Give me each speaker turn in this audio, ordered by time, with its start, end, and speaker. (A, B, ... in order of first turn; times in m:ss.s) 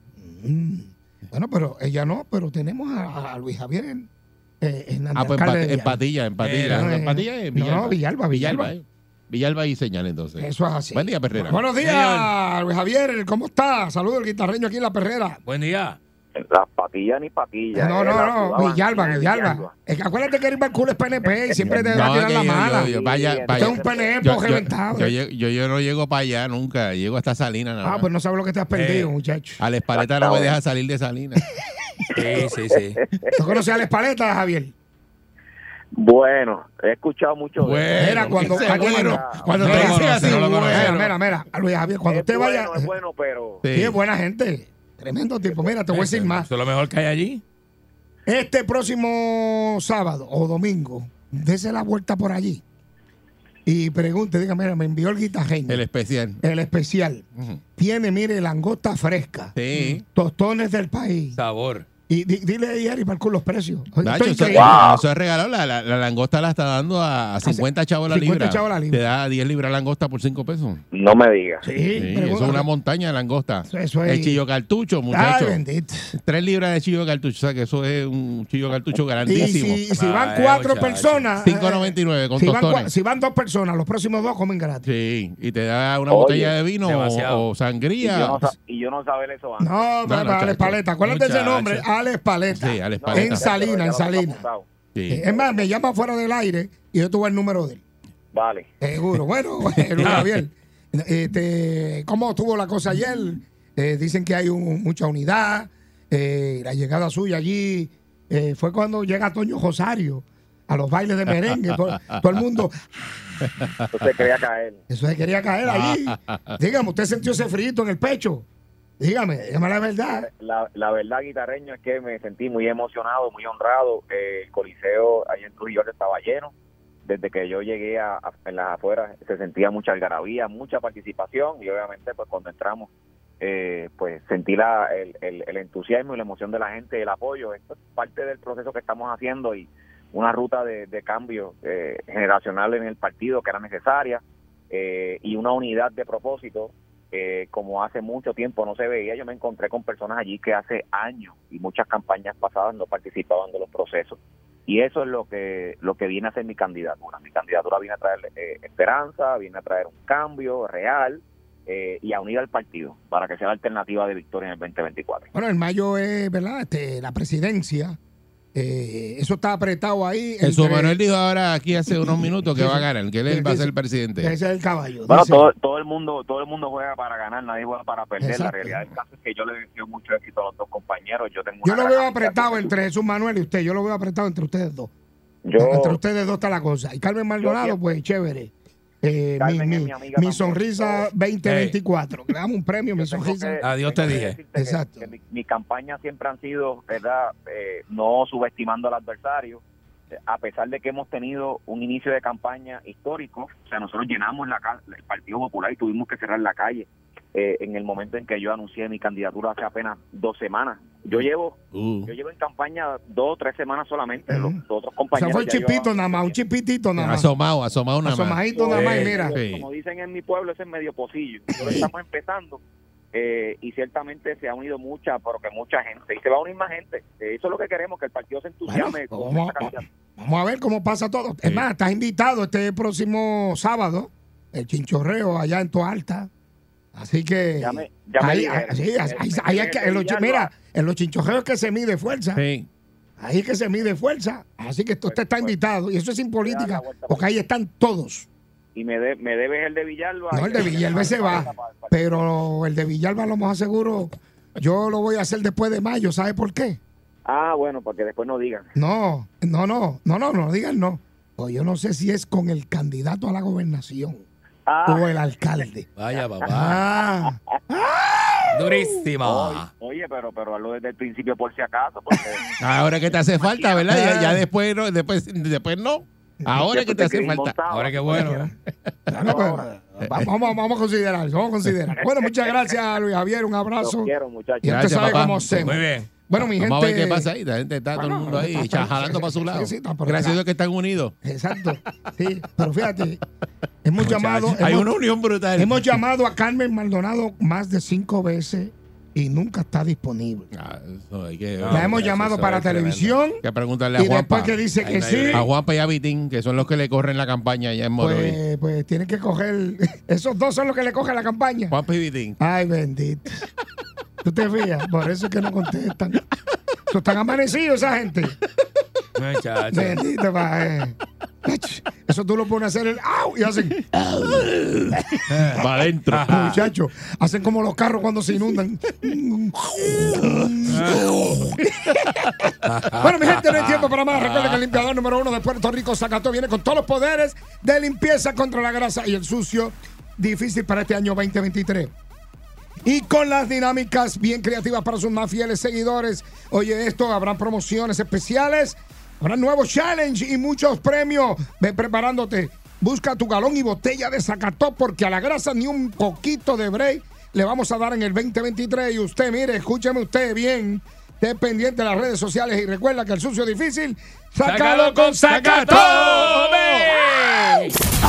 0:00.2-0:04.1 A
0:04.6-0:06.0 A
0:05.2-0:11.7 B
0:06.4-0:07.0 C
0:06.6-0:08.7 A
0:10.4-0:15.4 A
0:11.7-0:12.3 C
0:15.4-0:16.0 C
0:16.4-0:19.7 D
0:17.7-0:22.9 A
0:21.6-0:28.1 B
0:22.7-0:24.1 D
0:23.5-0:25.1 A
0:27.8-0:29.6 A
0:28.7-0:29.1 C
0:29.6-0:31.4 B
0:29.9-0:30.6 D
0:32.1-0:33.0 C
0:32.7-0:33.3 D
0:33.3-0:34.7 A
0:35.9-0:39.8 D
0:37.6-0:41.1 C
0:38.0-0:42.9 A
0:38.0-0:41.0 B
0:42.1-0:43.6 D
0:43.6-0:44.0 B
0:43.7-0:46.5 A
0:45.9-0:47.4 C
0:48.3-0:52.6 A
0:53.6-0:55.8 A
0:55.7-0:56.4 B
0:56.4-1:01.4 A
0:59.5-1:00.0 B
1:01.3-1:01.8 C
1:02.1-1:04.8 A
1:04.0-1:10.8 B
1:04.5-1:05.0 D
1:07.4-1:09.0 A
1:10.9-1:11.7 D
1:11.6-1:12.7 A
1:11.9-1:15.6 B
1:13.7-1:14.4 A
1:15.1-1:16.1 A
1:16.1-1:19.9 B
1:19.2-1:24.9 A
1:19.9-1:21.3 C
1:21.4-1:22.9 B
1:24.8-1:28.5 B
1:26.1-1:26.5 D
1:26.8-1:27.5 C
1:28.0-1:29.9 D
1:29.6-1:34.4 A
1:30.0-1:30.8 B
1:31.0-1:31.8 C
1:32.5-1:33.5 B
1:33.0-1:34.7 D
1:34.9-1:35.3 B
1:35.1-1:37.8 A
1:38.3-1:38.7 D
1:38.8-1:52.9 A
1:39.8-1:40.3 B
1:53.9-1:54.8 D
1:54.9-1:58.4 A
1:55.7-1:56.6 B
1:59.0-2:00.3 A
2:00.1-2:06.5 D
2:07.0-2:12.9 D
2:13.4-2:45.3 D
2:45.3-2:48.0 A
2:48.5-2:51.0 A
2:50.4-2:54.3 B
2:51.9-2:55.5 A
2:55.1-3:02.7 D
2:58.2-2:58.7 A
3:01.6-3:04.9 A
3:05.4-3:06.0 D
3:05.6-3:13.6 A
3:07.4-3:07.8 D
3:09.4-3:11.1 D
3:11.4-3:11.8 C
3:13.0-3:19.6 D
3:13.6-3:14.4 C
3:14.5-3:15.0 A
3:20.1-3:36.4 D
3:31.7-3:32.1 B
3:34.3-3:34.6 A
3:35.1-3:37.3 A
3:37.0-3:38.4 B
3:38.0-3:39.4 A
3:38.5-3:42.6 D
3:38.7-3:39.3 C
3:39.3-3:39.6 B
3:43.1-3:49.8 D
3:48.7-3:56.3 A
3:56.9-4:02.4 A
3:57.6-4:00.5 D
4:02.3-4:02.7 B
4:03.2-4:08.3 A
4:05.1-4:05.5 D
4:06.4-4:07.3 D
4:08.7-4:12.2 D
4:10.3-4:16.8 A
4:17.2-4:18.7 D
4:18.7-4:24.2 A
4:24.6-4:25.0 D
4:24.8-4:25.8 A
4:26.0-4:26.8 C
4:26.5-4:28.8 A
4:28.5-4:29.7 C
4:29.2-4:32.5 D
4:32.6-4:37.6 B
4:33.4-4:33.7 D
4:33.8-4:34.4 A
4:36.6-4:38.4 D
4:37.7-4:38.5 C
4:39.1-4:44.1 A
4:39.2-4:39.6 D
4:40.0-4:40.3 B
4:42.2-4:42.7 D
4:43.8-4:45.2 D
4:44.6-4:47.3 A
4:44.6-4:45.7 B
4:45.5-4:46.1 C
4:46.4-4:51.1 B
4:47.9-4:50.4 A
4:51.2-4:53.2 A
4:53.8-4:54.9 A
4:54.0-4:55.8 B
4:55.6-5:00.5 A
5:00.5-5:02.6 B
5:01.6-5:03.2 C
5:01.7-5:03.4 A
5:03.4-5:08.4 B
5:03.9-5:05.5 A
5:04.8-5:05.5 C
5:08.0-5:11.8 A
5:11.7-5:12.4 B
5:12.4-5:13.3 A
5:14.2-5:16.2 A
5:16.9-5:18.3 A
5:19.2-5:20.0 C
5:19.7-5:23.8 A
5:23.9-5:26.6 B
5:25.3-5:26.5 C
5:26.2-5:41.9 A
5:30.7-5:31.1 C
5:32.6-5:34.6 C
5:42.8-6:06.9 A
6:04.4-6:07.7 C